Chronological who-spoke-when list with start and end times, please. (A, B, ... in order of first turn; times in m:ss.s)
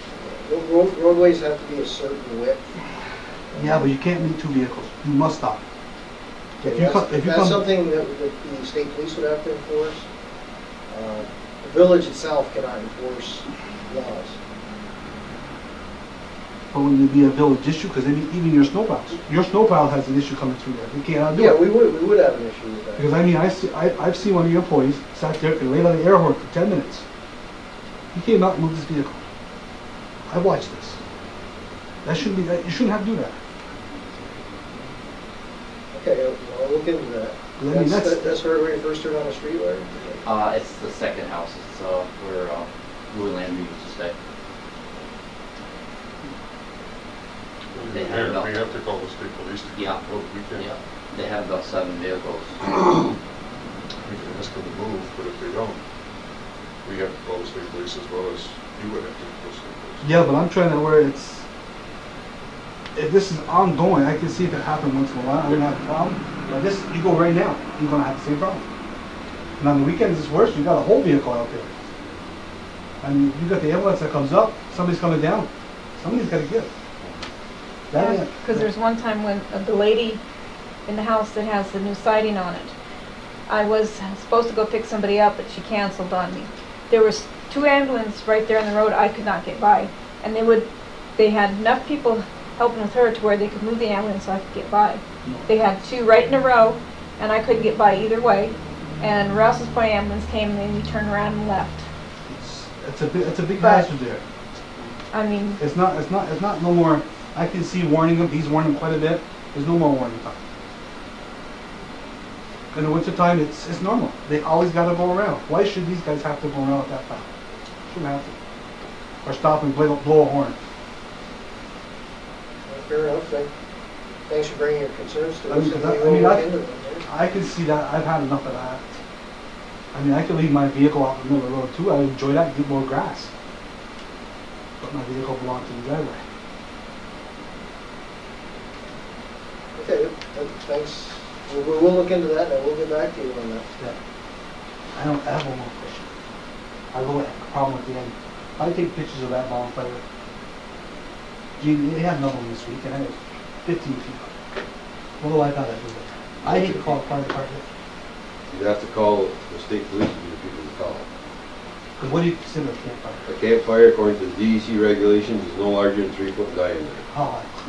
0:00.2-0:02.7 A
0:03.5-0:03.8 A
0:03.5-0:05.6 B
0:06.6-0:07.7 B
0:06.6-0:10.0 A
0:10.9-0:14.4 A
0:16.7-0:21.7 B
0:21.3-0:23.1 A
0:23.0-0:27.0 B
0:28.1-0:29.2 B
0:30.3-0:31.0 B
0:32.0-0:33.4 B
0:35.9-0:40.2 A
0:37.6-0:38.4 B
0:40.2-0:44.1 C
0:47.7-0:50.7 D
0:47.9-0:48.5 C
0:49.7-0:50.0 C
0:50.6-0:52.6 C
0:54.0-0:55.8 D
0:56.8-1:00.2 D
1:00.0-1:01.4 B
1:02.9-1:08.6 B
1:09.6-1:11.7 B
1:13.0-1:16.7 B
1:17.9-1:18.7 B
1:17.9-1:20.2 E
1:20.9-1:22.7 E
1:23.5-1:41.8 E
1:35.2-1:35.5 B
1:42.3-1:44.2 B
1:43.6-1:43.9 E
1:45.1-1:45.6 E
1:45.6-1:50.4 B
1:52.7-1:57.3 B
1:57.9-1:58.4 B
1:59.2-2:00.6 B
2:02.7-2:03.5 A
2:04.3-2:07.0 A
2:05.5-2:06.5 B
2:07.0-2:08.9 B
2:09.9-2:13.3 B
2:14.8-2:16.2 B
2:19.8-2:23.6 A
2:24.9-2:26.1 B
2:26.9-2:30.0 B
2:31.6-2:34.3 B
2:35.2-2:37.6 B
2:36.4-2:37.0 F
2:38.5-2:41.0 F
2:42.0-2:43.2 B
2:43.2-2:47.1 F
2:47.1-2:47.5 B